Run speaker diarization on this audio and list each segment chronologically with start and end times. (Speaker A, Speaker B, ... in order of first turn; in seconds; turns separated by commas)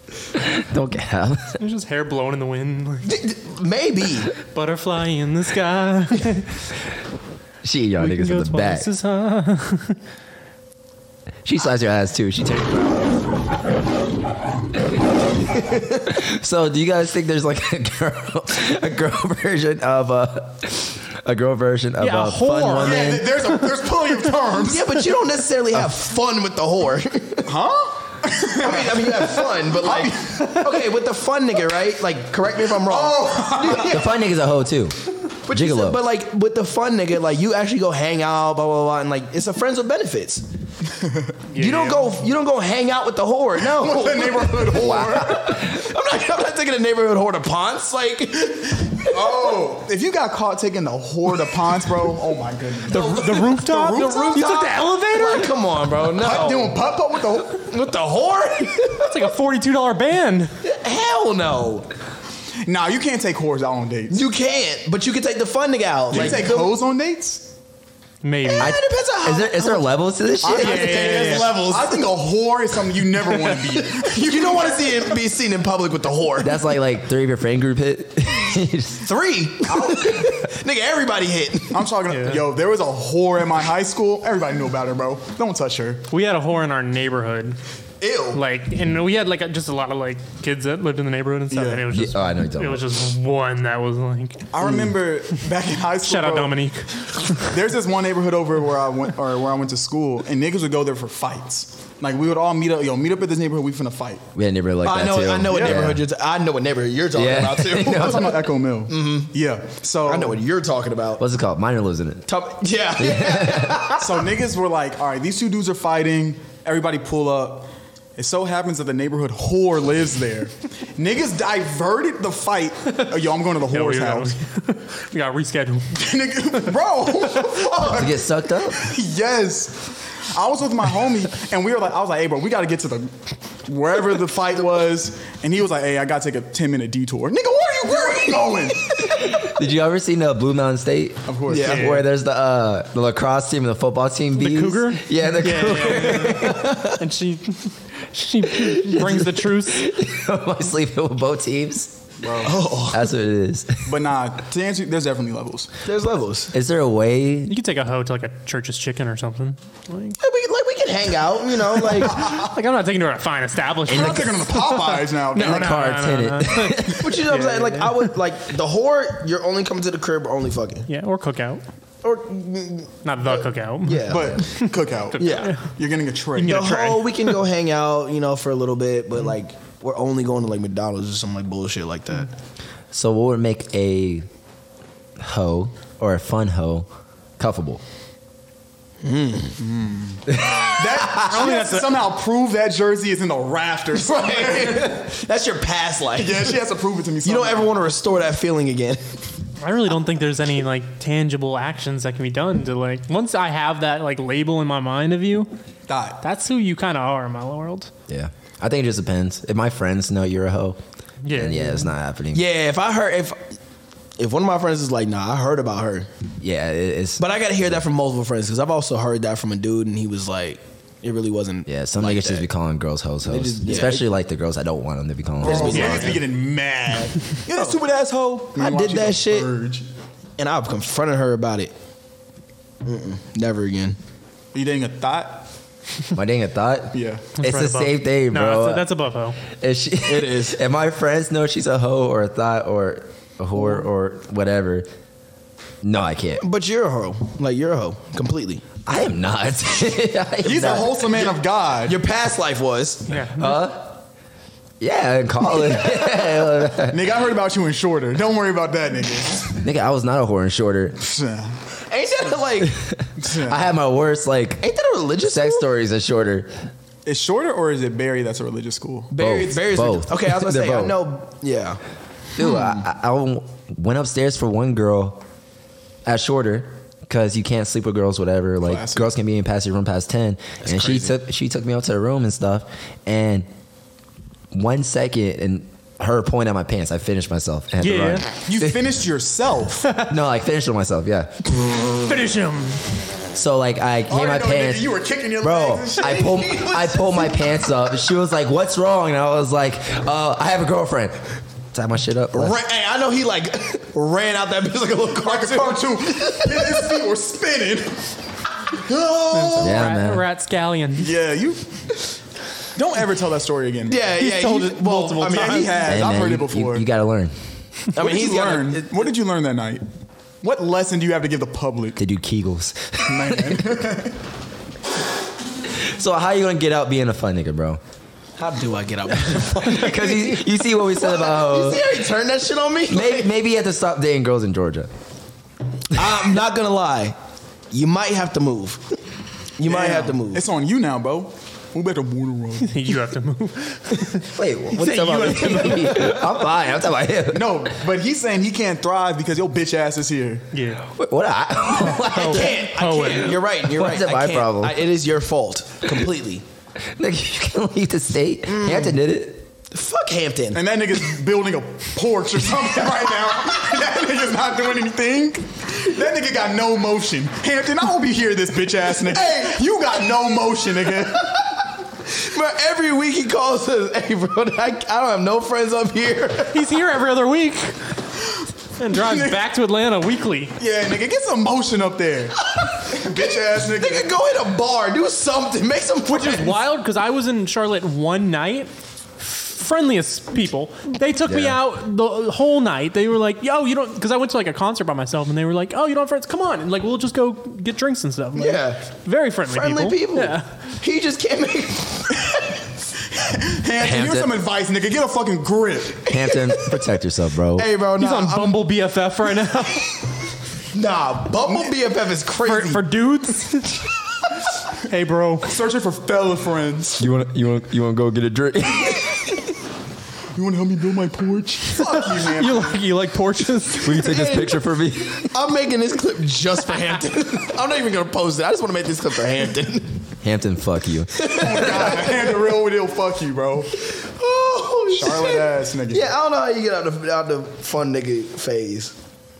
Speaker A: 0.3-1.6, Speaker B: 1.6-3.1, Speaker C: 3.0-4.3, Speaker B: 4.5-6.6, Speaker A: 7.6-8.9, Speaker B: 8.0-10.0, Speaker A: 11.4-13.2, Speaker A: 16.1-23.3, Speaker B: 22.0-24.1, Speaker D: 22.8-25.1, Speaker C: 24.6-27.5, Speaker D: 27.4-30.8, Speaker C: 28.6-34.1, Speaker D: 32.8-34.1, Speaker A: 33.9-34.9, Speaker C: 35.5-40.5, Speaker A: 35.5-36.1, Speaker D: 41.0-41.3, Speaker B: 41.5-42.1, Speaker C: 41.5-49.6, Speaker D: 43.6-45.6, Speaker A: 44.8-45.4, Speaker D: 49.1-54.5, Speaker C: 52.9-56.8, Speaker B: 52.9-55.6, Speaker D: 56.1-57.7, Speaker C: 57.5-59.2, Speaker B: 59.0-60.5, Speaker C: 60.6-61.9, Speaker D: 62.6-64.3, Speaker C: 64.1-66.7, Speaker D: 66.1-67.5, Speaker B: 68.2-68.7, Speaker C: 68.5-69.9, Speaker A: 68.6-71.0, Speaker D: 70.4-75.2, Speaker C: 70.5-72.1, Speaker B: 70.6-71.5, Speaker C: 73.3-76.6, Speaker A: 76.4-79.1, Speaker C: 79.0-81.9, Speaker D: 79.7-80.3, Speaker D: 81.7-86.0, Speaker B: 82.1-82.4, Speaker B: 86.1-87.6, Speaker C: 88.0-88.4, Speaker B: 88.3-94.5, Speaker D: 91.5-91.8, Speaker A: 91.9-92.8, Speaker D: 94.5-96.6, Speaker B: 96.0-97.5, Speaker D: 97.4-104.2, Speaker A: 104.3-106.0, Speaker C: 104.8-109.3, Speaker D: 105.5-105.9, Speaker A: 107.1-108.4, Speaker D: 107.8-110.4, Speaker C: 110.0-111.2, Speaker A: 111.2-112.3, Speaker C: 112.3-114.3, Speaker A: 112.9-113.9, Speaker D: 114.0-124.3, Speaker B: 123.7-125.9, Speaker D: 125.9-133.1, Speaker A: 127.8-128.8, Speaker D: 133.7-139.0, Speaker A: 139.3-146.8, Speaker D: 141.3-142.0, Speaker C: 141.5-142.0, Speaker B: 141.6-142.0, Speaker B: 144.3-149.9, Speaker C: 146.4-147.0, Speaker A: 148.4-152.0, Speaker D: 152.2-152.7, Speaker C: 152.4-153.1, Speaker A: 152.9-153.9, Speaker D: 153.8-155.7, Speaker C: 155.8-156.6, Speaker A: 156.5-157.6, Speaker B: 157.4-160.2, Speaker C: 160.2-162.4, Speaker B: 162.1-168.1, Speaker D: 162.1-162.5, Speaker D: 163.8-165.9, Speaker A: 165.3-167.1, Speaker C: 167.0-170.9, Speaker B: 170.9-171.6, Speaker C: 172.0-174.5, Speaker B: 173.0-175.7, Speaker D: 174.1-176.7, Speaker C: 175.2-175.5, Speaker B: 176.3-177.4, Speaker C: 176.4-182.3, Speaker A: 182.9-184.2, Speaker A: 185.2-186.9, Speaker A: 187.4-187.8, Speaker C: 189.0-189.6, Speaker D: 189.6-195.1, Speaker A: 190.3-191.4, Speaker C: 193.9-196.6, Speaker D: 196.2-197.8, Speaker C: 197.2-199.0, Speaker B: 199.6-205.5, Speaker D: 205.9-206.2, Speaker B: 206.2-207.9, Speaker A: 208.1-210.8, Speaker B: 211.2-211.9, Speaker A: 211.3-212.4, Speaker C: 212.3-213.4, Speaker C: 214.2-216.1, Speaker A: 216.4-217.8, Speaker C: 217.2-222.5, Speaker A: 221.7-226.2, Speaker C: 223.2-224.1, Speaker C: 225.4-226.2, Speaker D: 225.4-229.9, Speaker B: 225.7-226.1, Speaker C: 227.5-227.8, Speaker C: 228.5-229.6, Speaker C: 230.4-231.7, Speaker C: 232.8-234.0, Speaker D: 234.5-235.5, Speaker A: 236.1-238.9, Speaker D: 236.9-237.3, Speaker B: 237.3-239.4, Speaker A: 239.5-244.9, Speaker C: 240.0-240.6, Speaker A: 245.8-246.4, Speaker C: 246.4-248.6, Speaker A: 248.8-251.1, Speaker D: 250.4-252.0, Speaker C: 250.5-251.3, Speaker C: 251.8-253.1, Speaker B: 253.1-253.6, Speaker A: 253.3-254.0, Speaker A: 254.8-257.1, Speaker C: 255.8-256.2, Speaker D: 256.9-259.6, Speaker A: 259.6-261.0, Speaker D: 261.0-261.6, Speaker C: 261.9-262.7, Speaker A: 262.6-264.7, Speaker D: 263.2-263.6, Speaker C: 264.6-265.7, Speaker A: 265.2-266.5, Speaker D: 267.1-269.5, Speaker C: 269.1-271.8, Speaker A: 269.2-271.0, Speaker A: 272.4-275.2, Speaker D: 272.4-272.8, Speaker A: 276.0-283.5, Speaker D: 278.6-279.1, Speaker C: 280.6-281.1, Speaker A: 284.5-288.8, Speaker B: 287.8-288.2, Speaker D: 288.4-289.9, Speaker A: 290.0-291.5, Speaker B: 292.0-292.9, Speaker A: 293.3-301.2, Speaker D: 294.1-296.7, Speaker C: 296.0-297.3, Speaker A: 301.7-302.5, Speaker C: 302.3-307.0, Speaker D: 305.2-308.1, Speaker D: 308.7-309.9, Speaker B: 309.3-311.1, Speaker A: 309.6-310.2, Speaker D: 311.0-311.9, Speaker D: 312.7-314.1, Speaker C: 313.9-316.0, Speaker B: 314.1-315.7, Speaker D: 315.2-316.9, Speaker A: 315.8-317.3, Speaker C: 317.9-319.1, Speaker D: 317.9-319.8, Speaker D: 320.4-322.0, Speaker A: 322.0-323.6, Speaker D: 323.0-324.2, Speaker A: 325.7-327.8, Speaker C: 328.4-333.3, Speaker A: 329.3-331.8, Speaker A: 332.9-334.9, Speaker C: 335.9-337.1, Speaker C: 337.7-338.9, Speaker C: 339.6-340.4, Speaker D: 339.6-342.9, Speaker B: 342.6-346.1, Speaker A: 344.2-347.7, Speaker D: 347.3-350.5, Speaker B: 350.5-350.8, Speaker A: 350.8-354.9, Speaker B: 351.8-353.4, Speaker C: 352.2-356.4, Speaker A: 356.9-359.5, Speaker C: 358.4-359.0, Speaker C: 359.7-360.6, Speaker D: 360.5-371.5, Speaker C: 372.1-376.6, Speaker B: 376.5-377.8, Speaker B: 378.8-380.5, Speaker D: 379.0-379.4, Speaker D: 380.6-384.1, Speaker C: 382.4-386.6, Speaker B: 386.1-400.5, Speaker A: 391.2-391.6, Speaker C: 398.3-398.8, Speaker C: 399.4-402.6, Speaker D: 403.1-406.1, Speaker A: 403.8-404.4, Speaker C: 406.1-406.9, Speaker A: 406.1-407.7, Speaker C: 407.5-408.6, Speaker B: 408.0-410.0, Speaker C: 410.7-412.9, Speaker D: 411.4-411.7, Speaker B: 412.4-413.9, Speaker B: 414.8-415.5, Speaker D: 415.4-417.1, Speaker A: 417.0-419.4, Speaker D: 420.3-422.8, Speaker B: 421.8-424.1, Speaker A: 423.8-425.3, Speaker C: 423.9-424.6, Speaker C: 425.2-430.0, Speaker A: 430.2-431.9, Speaker C: 431.1-432.6, Speaker D: 431.4-433.7, Speaker C: 433.8-438.9, Speaker D: 434.9-436.1